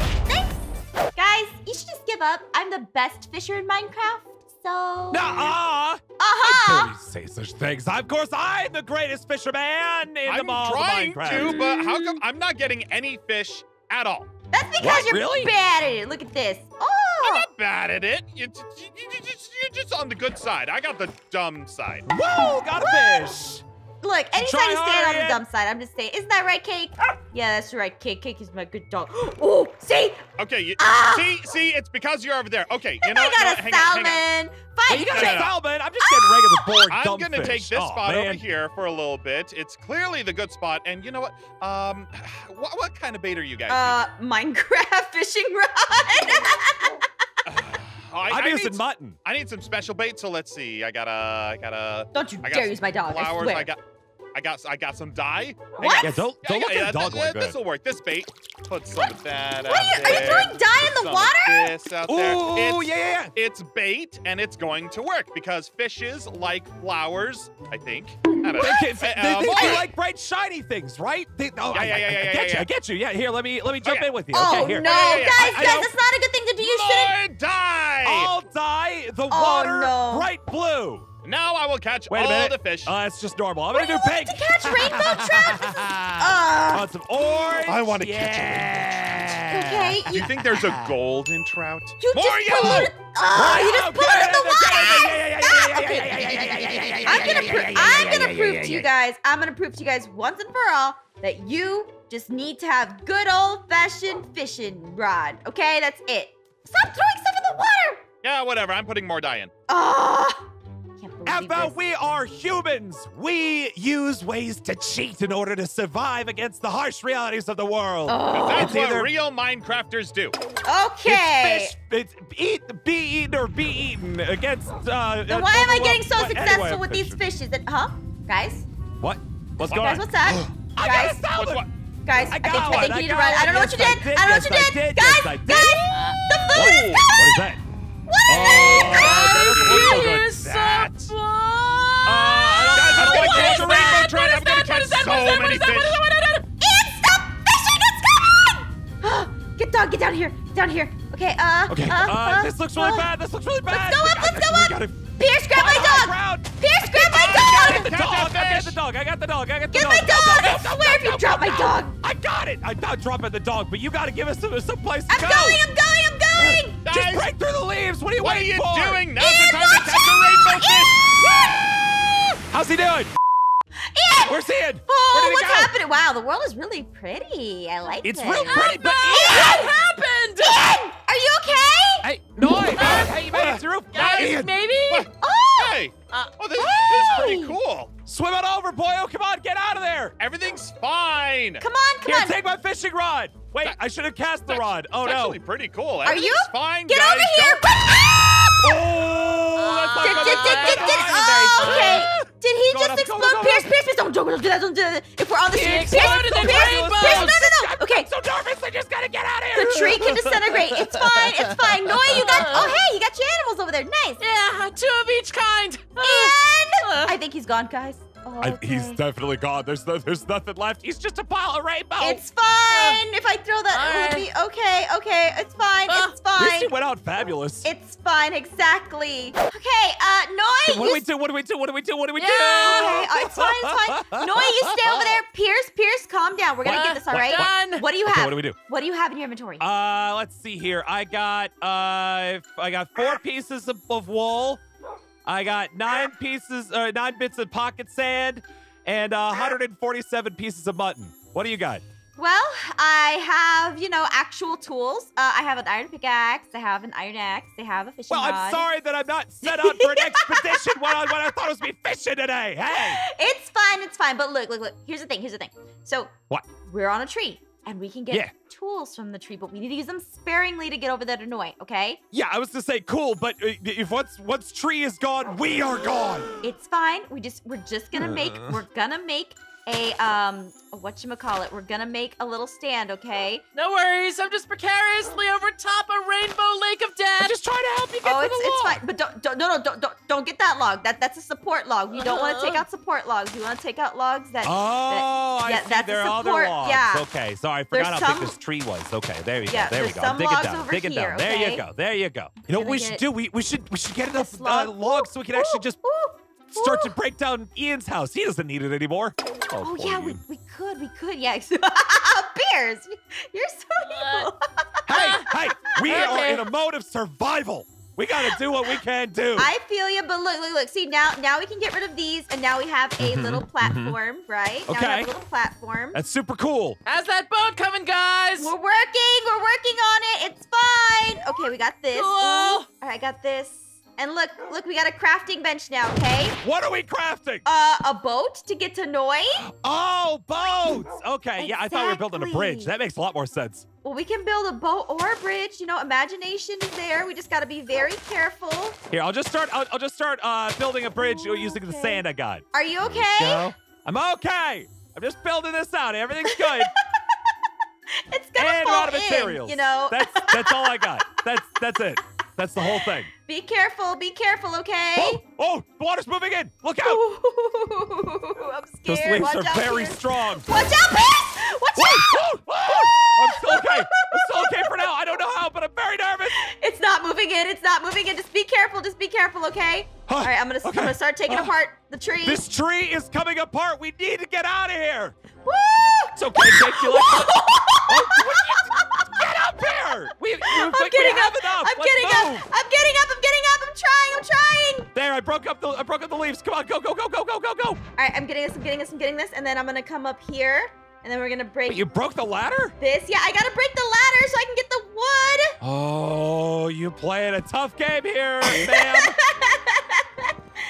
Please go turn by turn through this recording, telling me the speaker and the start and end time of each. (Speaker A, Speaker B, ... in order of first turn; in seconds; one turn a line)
Speaker A: 1.1-5.5
Speaker B: 5.1-11.6
Speaker A: 6.2-6.9
Speaker C: 10.2-14.3
Speaker A: 11.3-12.2
Speaker A: 14.5-17.5
Speaker B: 14.8-15.5
Speaker C: 17.2-22.1
Speaker B: 22.1-23.6
Speaker A: 22.7-23.3
Speaker A: 24.0-30.2
Speaker B: 24.4-25.4
Speaker C: 30.4-34.2
Speaker A: 30.8-31.3
Speaker A: 33.0-35.5
Speaker B: 34.9-38.4
Speaker C: 35.0-35.5
Speaker A: 36.0-36.7
Speaker C: 36.9-44.0
Speaker A: 43.7-47.0
Speaker C: 47.5-53.8
Speaker B: 48.3-49.2
Speaker A: 52.1-53.7
Speaker C: 54.3-69.9
Speaker A: 55.8-56.2
Speaker B: 56.0-57.6
Speaker A: 59.6-61.7
Speaker B: 62.1-63.3
Speaker B: 68.6-75.9
Speaker A: 69.5-69.8
Speaker C: 71.7-72.7
Speaker C: 73.8-75.8
Speaker A: 74.3-77.2
Speaker C: 76.6-78.3
Speaker B: 78.0-81.1
Speaker A: 79.3-80.3
Speaker C: 81.2-83.0
Speaker B: 82.1-90.9
Speaker A: 83.7-86.9
Speaker C: 87.7-89.4
Speaker A: 89.5-90.2
Speaker C: 90.1-92.9
Speaker A: 92.0-108.0
Speaker B: 92.1-98.9
Speaker C: 108.2-109.5
Speaker A: 109.7-111.8
Speaker B: 111.3-119.1
Speaker A: 118.1-118.8
Speaker C: 118.3-120.4
Speaker A: 120.7-121.8
Speaker B: 121.0-127.2
Speaker A: 125.3-128.7
Speaker B: 129.0-131.6
Speaker C: 129.7-129.9
Speaker A: 129.7-131.2
Speaker C: 131.3-131.7
Speaker A: 132.1-137.4
Speaker B: 132.3-135.9
Speaker D: 135.9-136.4
Speaker B: 136.5-137.6
Speaker C: 136.6-137.0
Speaker A: 138.1-139.2
Speaker B: 138.3-140.4
Speaker D: 138.3-146.4
Speaker C: 138.9-141.1
Speaker B: 142.1-144.1
Speaker C: 142.8-146.0
Speaker A: 146.6-153.1
Speaker B: 151.7-165.6
Speaker A: 153.7-157.9
Speaker C: 157.1-158.8
Speaker A: 159.7-162.0
Speaker A: 165.1-166.8
Speaker B: 166.4-169.0
Speaker C: 166.9-167.3
Speaker C: 168.2-171.2
Speaker A: 169.2-172.0
Speaker B: 172.5-173.1
Speaker A: 173.9-179.8
Speaker B: 174.3-175.7
Speaker B: 178.0-179.7
Speaker D: 178.3-180.7
Speaker A: 180.4-182.1
Speaker B: 182.0-184.5
Speaker D: 182.7-183.3
Speaker C: 182.8-187.9
Speaker D: 183.9-185.1
Speaker A: 185.2-185.8
Speaker D: 186.1-186.3
Speaker A: 186.6-187.6
Speaker B: 188.1-190.2
Speaker C: 190.2-191.6
Speaker A: 191.6-192.4
Speaker B: 192.1-195.4
Speaker C: 194.5-197.7
Speaker A: 196.0-198.7
Speaker B: 198.6-203.7
Speaker D: 199.6-202.1
Speaker A: 200.0-208.1
Speaker D: 205.5-207.4
Speaker B: 205.9-212.8
Speaker A: 209.5-214.2
Speaker D: 212.1-212.8
Speaker D: 214.2-217.2
Speaker A: 216.0-219.0
Speaker B: 218.4-222.2
Speaker A: 222.0-226.8
Speaker D: 222.7-223.0
Speaker D: 223.7-224.3
Speaker D: 225.9-226.2
Speaker B: 226.4-227.7
Speaker A: 227.6-231.0
Speaker B: 230.7-235.2
Speaker D: 232.2-233.0
Speaker A: 232.6-239.6
Speaker B: 236.7-238.6
Speaker D: 236.7-237.8
Speaker B: 239.6-244.6
Speaker B: 245.3-251.8
Speaker A: 252.2-258.7
Speaker B: 258.1-263.0
Speaker A: 259.4-261.2
Speaker A: 262.8-266.1
Speaker A: 266.6-272.0
Speaker B: 272.1-276.3
Speaker A: 276.4-283.4
Speaker B: 277.9-278.6
Speaker D: 283.6-287.4
Speaker B: 287.2-288.8
Speaker A: 288.0-297.1
Speaker D: 291.9-292.7
Speaker B: 294.4-305.8
Speaker A: 297.7-298.4
Speaker A: 299.5-301.6
Speaker A: 302.5-303.0
Speaker A: 304.1-306.9
Speaker B: 306.5-310.2
Speaker A: 309.6-315.4
Speaker D: 313.9-314.3
Speaker B: 314.9-319.5
Speaker D: 314.9-315.3
Speaker D: 315.8-316.5
Speaker A: 318.2-318.8
Speaker A: 319.4-326.0
Speaker B: 323.0-324.0
Speaker B: 324.7-325.1
Speaker B: 325.9-326.8
Speaker D: 326.9-328.5
Speaker A: 328.4-336.4
Speaker D: 331.9-332.7
Speaker B: 336.4-337.4
Speaker A: 337.4-339.4
Speaker B: 339.4-343.7
Speaker A: 341.4-342.7
Speaker A: 343.8-348.8
Speaker B: 348.9-356.7
Speaker A: 350.9-353.5
Speaker A: 356.3-356.7
Speaker A: 358.1-360.8
Speaker B: 358.4-363.1
Speaker A: 362.6-365.2
Speaker B: 365.0-367.0
Speaker A: 366.8-374.9
Speaker B: 368.9-370.5
Speaker B: 371.8-376.4
Speaker A: 376.4-382.4
Speaker B: 380.1-381.5
Speaker B: 382.2-385.1
Speaker A: 385.4-389.2
Speaker B: 386.2-392.5
Speaker A: 390.4-394.9
Speaker B: 394.9-397.8
Speaker A: 398.0-401.9
Speaker B: 401.7-402.7
Speaker A: 402.8-405.6
Speaker B: 405.6-409.1
Speaker A: 408.4-410.3